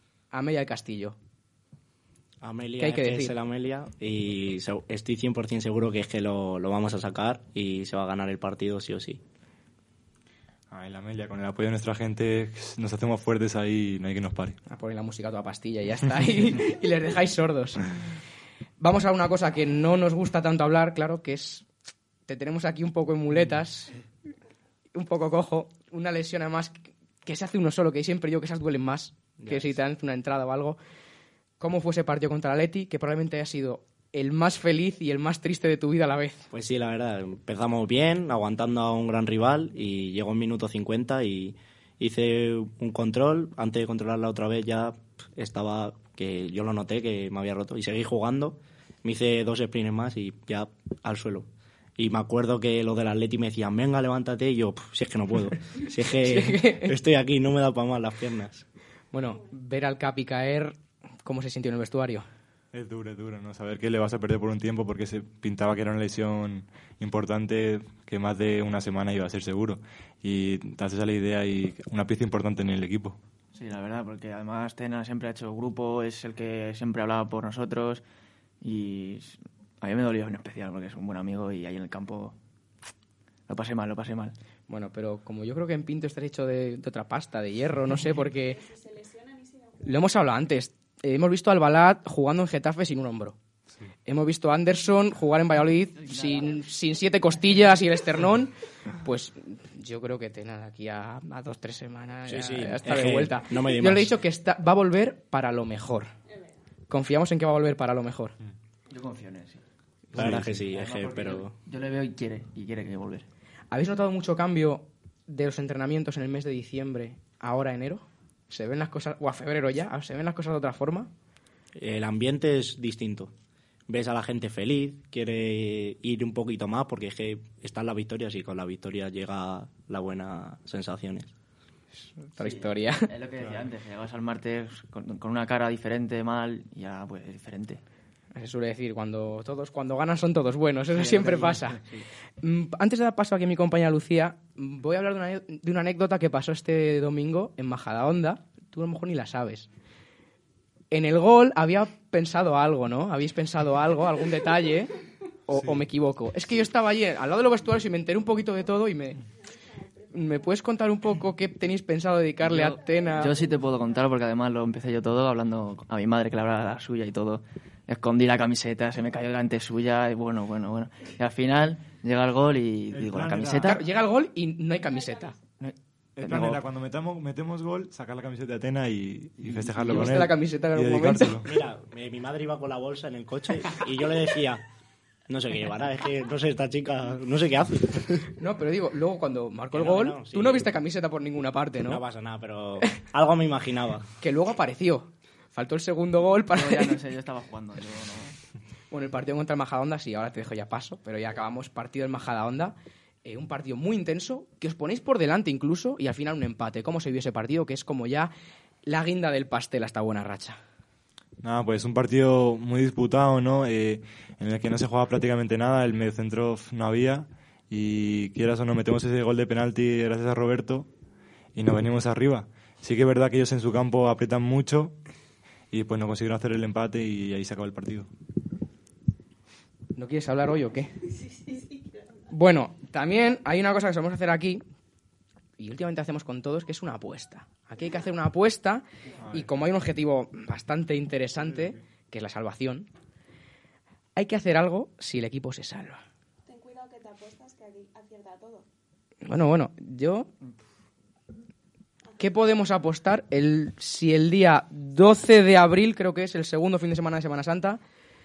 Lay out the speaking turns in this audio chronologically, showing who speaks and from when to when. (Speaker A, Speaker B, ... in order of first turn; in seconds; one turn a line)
Speaker A: 0.3-1.2
Speaker B: 2.4-9.2
Speaker A: 2.8-3.3
Speaker C: 10.7-14.6
Speaker A: 14.7-17.8
Speaker A: 18.8-21.7
Speaker A: 22.3-23.9
Speaker A: 24.9-30.8
Speaker B: 29.4-29.8
Speaker A: 31.6-36.5
Speaker B: 36.5-58.7
Speaker A: 56.3-56.9
Speaker A: 59.1-62.3
Speaker C: 62.7-73.2
Speaker D: 73.5-78.0
Speaker D: 78.6-82.4
Speaker D: 83.5-84.3
Speaker A: 84.7-88.7
Speaker E: 89.0-89.4
Speaker A: 89.8-93.4
Speaker A: 94.1-106.1
Speaker D: 96.0-96.6
Speaker B: 102.3-104.1
Speaker A: 106.9-108.4
Speaker D: 108.9-113.3
Speaker B: 110.1-111.5
Speaker C: 110.2-110.4
Speaker A: 113.7-121.1
Speaker B: 121.8-123.3
Speaker B: 123.9-131.3
Speaker A: 132.2-133.1
Speaker D: 132.4-137.8
Speaker A: 138.3-141.8
Speaker B: 141.0-142.1
Speaker A: 142.4-149.7
Speaker A: 150.9-154.9
Speaker A: 155.5-159.2
Speaker C: 155.5-155.8
Speaker A: 160.1-163.3
Speaker D: 162.4-173.8
Speaker C: 172.9-173.8
Speaker A: 173.6-175.4
Speaker D: 175.6-176.6
Speaker C: 176.2-181.5
Speaker A: 179.8-181.4
Speaker B: 181.4-184.6
Speaker B: 185.3-188.3
Speaker A: 188.4-192.0
Speaker B: 189.7-190.7
Speaker B: 191.8-194.1
Speaker A: 194.2-197.0
Speaker D: 196.5-198.4
Speaker A: 198.9-208.3
Speaker A: 208.9-210.6
Speaker C: 211.4-220.9
Speaker C: 221.6-225.0
Speaker C: 225.7-228.1
Speaker A: 230.0-230.9
Speaker A: 232.3-234.6
Speaker A: 235.6-242.9
Speaker C: 241.5-241.8
Speaker A: 244.2-246.0
Speaker E: 246.5-248.6
Speaker A: 249.2-250.3
Speaker A: 252.2-257.8